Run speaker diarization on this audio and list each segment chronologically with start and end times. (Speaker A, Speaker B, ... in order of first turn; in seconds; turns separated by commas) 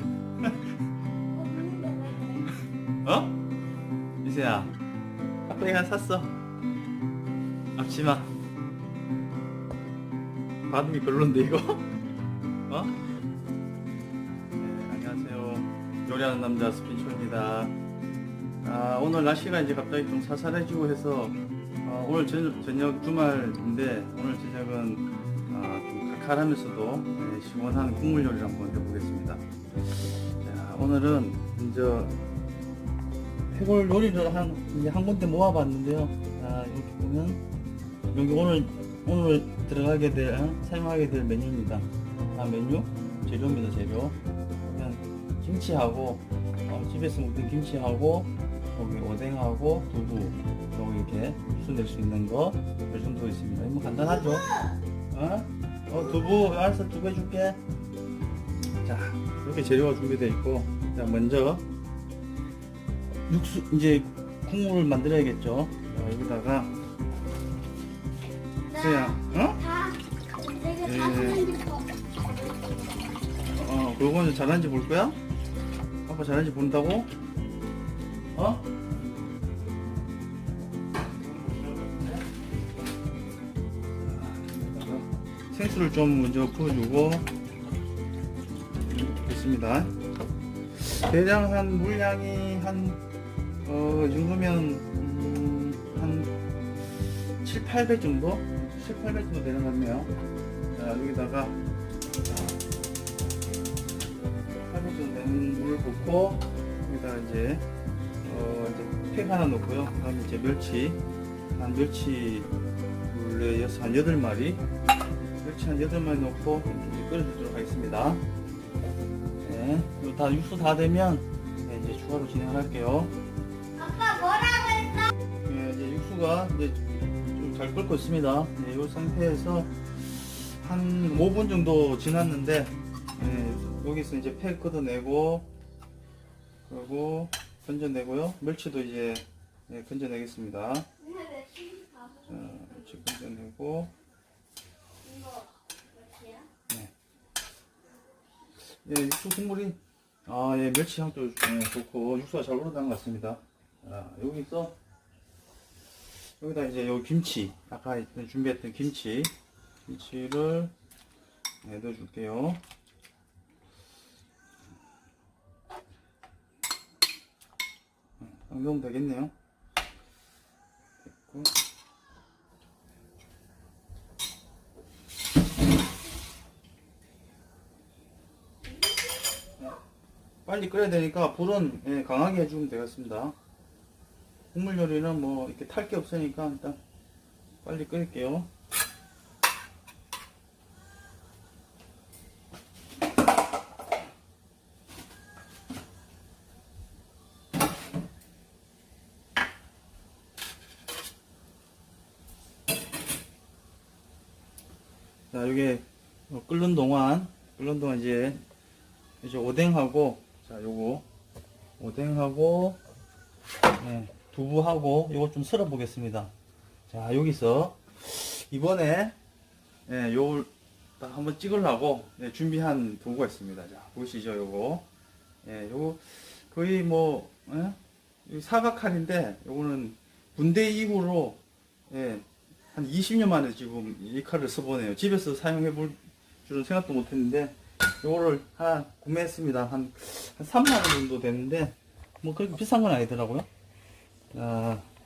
Speaker A: 1.3-2.5, Speaker B: 3.0-3.3, Speaker B: 4.2-4.7, Speaker B: 5.5-6.3, Speaker B: 7.8-8.3, Speaker B: 10.7-11.8, Speaker B: 12.7-12.9, Speaker B: 14.6-17.7, Speaker B: 18.6-29.4, Speaker B: 30.4-32.2, Speaker B: 33.5-37.4, Speaker B: 38.1-54.5, Speaker A: 54.1-54.8, Speaker B: 55.1-57.6, Speaker B: 58.8-61.6, Speaker B: 63.3-66.7, Speaker A: 68.7-73.1, Speaker B: 68.8-69.6, Speaker B: 70.8-71.4, Speaker B: 73.5-75.2, Speaker B: 76.1-77.1, Speaker B: 78.3-78.7, Speaker B: 81.0-82.3, Speaker B: 84.0-87.3, Speaker B: 88.9-89.9, Speaker B: 90.8-93.0, Speaker B: 93.7-96.3, Speaker B: 97.4-100.1, Speaker B: 100.7-101.6, Speaker B: 104.7-107.7, Speaker B: 108.2-111.0, Speaker B: 111.5-112.5, Speaker B: 113.1-114.6, Speaker B: 115.4-118.2, Speaker B: 119.4-123.1, Speaker A: 123.8-125.1, Speaker B: 125.5-129.7, Speaker B: 130.6-135.5, Speaker B: 136.7-140.9, Speaker A: 141.0-142.8, Speaker B: 142.3-143.9, Speaker A: 145.0-146.5, Speaker B: 148.8-154.8, Speaker B: 156.4-159.3, Speaker B: 159.9-160.7, Speaker B: 161.6-162.6, Speaker B: 168.2-169.3, Speaker B: 171.0-171.5, Speaker B: 180.5-183.3, Speaker B: 184.5-186.8, Speaker B: 187.6-188.5, Speaker B: 205.3-208.4, Speaker B: 209.2-211.1, Speaker B: 211.8-212.8, Speaker B: 213.8-216.3, Speaker B: 216.9-219.2, Speaker B: 219.9-224.9, Speaker B: 225.4-243.5, Speaker B: 244.3-244.9